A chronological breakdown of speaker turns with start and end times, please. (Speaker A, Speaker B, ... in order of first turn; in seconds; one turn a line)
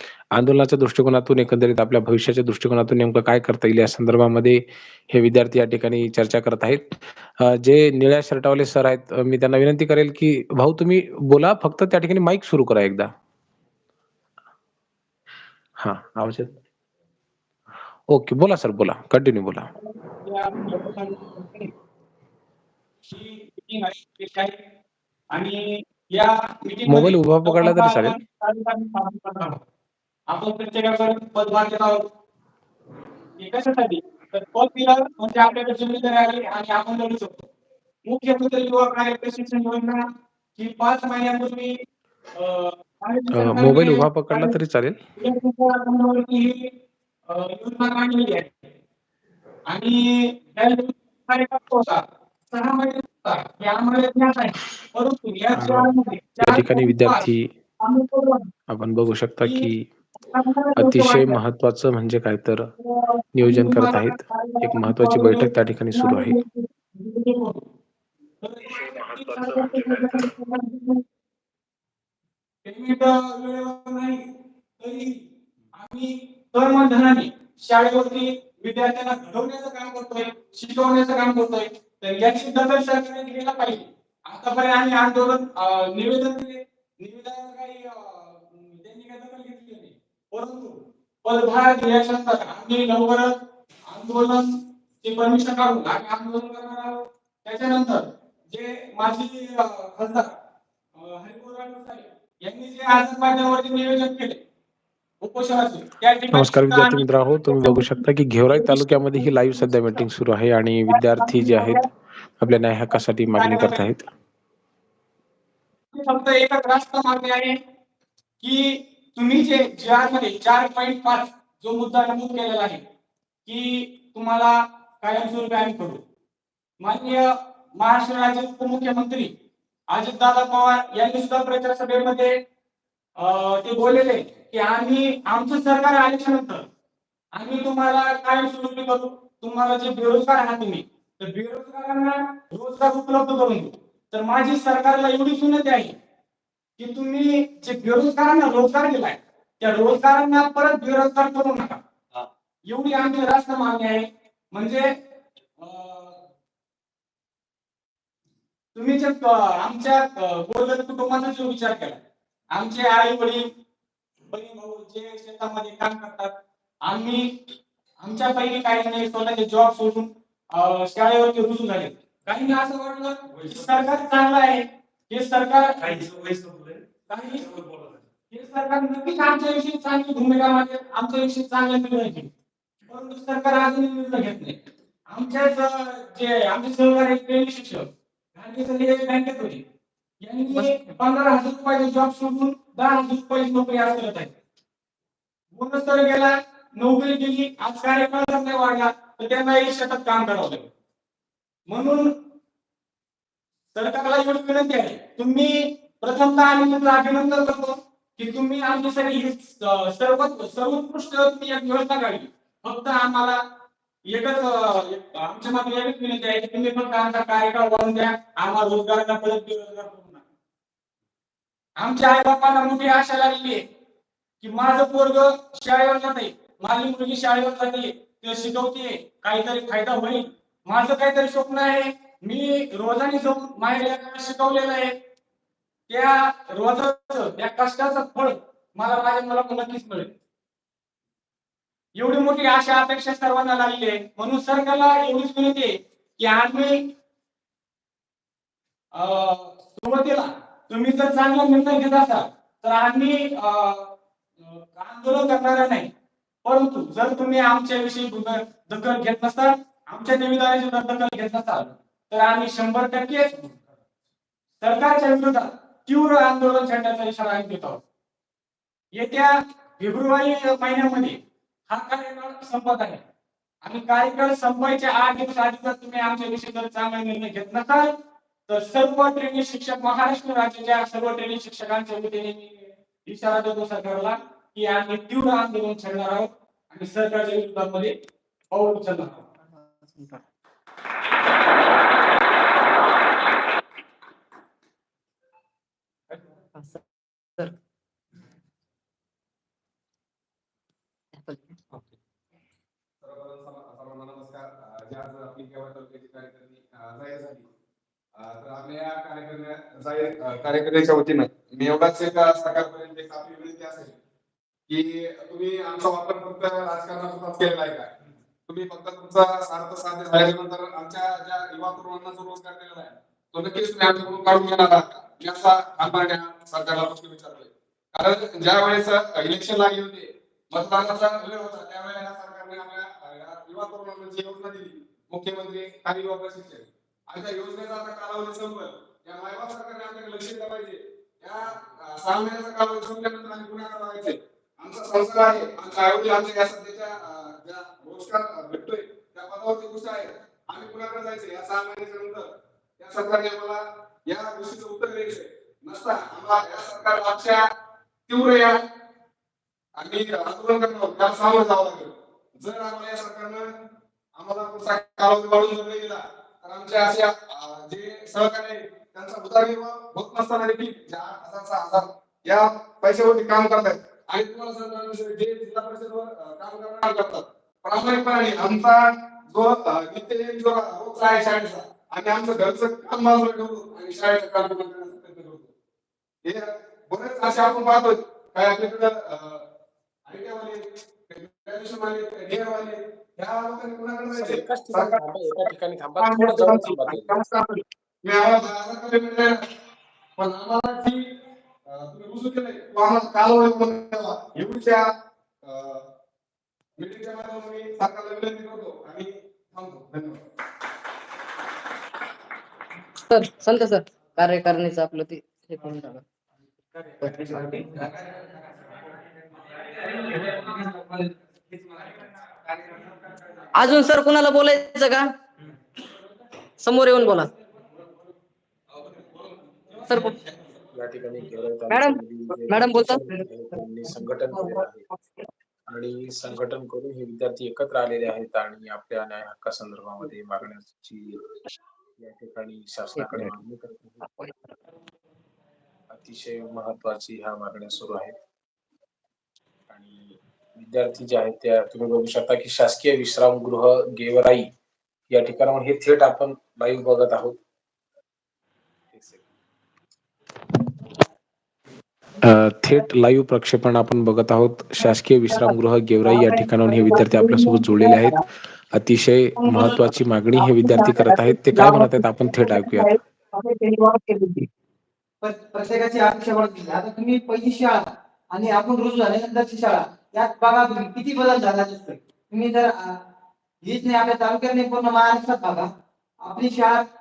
Speaker A: 0.3-13.1
Speaker A: 15.8-16.6
Speaker A: 18.1-19.7
Speaker B: 19.8-21.7
Speaker B: 23.1-24.6
Speaker B: 25.3-29.6
Speaker A: 26.9-28.2
Speaker B: 30.3-32.1
Speaker B: 33.4-37.5
Speaker B: 38.1-40.0
Speaker B: 40.5-41.8
Speaker B: 42.4-44.5
Speaker A: 43.3-45.0
Speaker B: 45.2-46.7
Speaker B: 47.3-48.5
Speaker B: 49.7-57.2
Speaker A: 55.5-57.5
Speaker B: 57.8-58.5
Speaker A: 58.7-59.9
Speaker B: 60.2-61.4
Speaker A: 60.8-62.7
Speaker B: 62.8-67.6
Speaker A: 63.3-66.4
Speaker B: 68.4-71.0
Speaker A: 68.7-70.3
Speaker B: 72.6-74.2
Speaker B: 74.8-75.2
Speaker B: 75.7-93.3
Speaker B: 93.9-100.3
Speaker B: 100.9-104.4
Speaker B: 105.2-107.9
Speaker A: 106.3-111.8
Speaker B: 108.5-109.2
Speaker B: 110.9-111.8
Speaker A: 112.4-114.1
Speaker B: 113.4-113.8
Speaker B: 115.9-117.6
Speaker B: 118.4-122.8
Speaker B: 123.5-126.0
Speaker B: 126.8-129.3
Speaker B: 129.9-132.4
Speaker B: 133.2-136.7
Speaker B: 137.3-145.9
Speaker B: 146.8-151.8
Speaker B: 152.6-154.9
Speaker B: 155.6-156.2
Speaker B: 158.7-162.0
Speaker B: 162.5-163.5
Speaker B: 164.3-167.4
Speaker B: 168.0-177.6
Speaker B: 178.3-182.3
Speaker B: 182.9-184.6
Speaker B: 185.1-189.6
Speaker B: 190.2-194.3
Speaker B: 195.5-200.7
Speaker B: 201.7-202.2
Speaker B: 203.7-213.4
Speaker B: 214.1-220.2
Speaker B: 221.8-223.6
Speaker B: 224.4-234.9
Speaker B: 235.9-240.1
Speaker B: 241.9-246.9
Speaker B: 248.9-255.9
Speaker B: 256.4-263.6
Speaker B: 264.6-267.8
Speaker B: 268.9-271.2
Speaker B: 271.7-273.0
Speaker B: 273.6-277.9
Speaker B: 278.5-287.9
Speaker B: 288.5-289.2
Speaker C: 301.2-301.5
Speaker D: 303.0-307.5
Speaker D: 308.1-313.9
Speaker D: 314.7-317.9
Speaker D: 318.5-357.4
Speaker D: 358.1-358.6
Speaker D: 359.8-363.5
Speaker D: 364.1-385.5
Speaker D: 386.2-389.4
Speaker D: 390.1-395.4
Speaker A: 394.1-397.2
Speaker D: 396.0-399.4
Speaker D: 400.2-401.1
Speaker D: 401.7-404.9
Speaker D: 405.4-405.9
Speaker D: 406.8-410.2
Speaker C: 413.1-416.0
Speaker B: 416.7-417.6
Speaker C: 417.0-417.4
Speaker D: 417.5-423.7
Speaker C: 423.5-425.1
Speaker C: 426.6-427.3
Speaker D: 428.7-430.5
Speaker C: 429.9-430.2
Speaker A: 430.7-434.8
Speaker C: 431.7-433.1
Speaker A: 435.7-441.2
Speaker A: 442.0-444.1
Speaker A: 445.9-448.1
Speaker A: 449.7-454.5
Speaker A: 455.1-457.4
Speaker A: 458.9-459.2
Speaker A: 462.2-473.0
Speaker E: 475.2-483.0
Speaker E: 483.6-486.9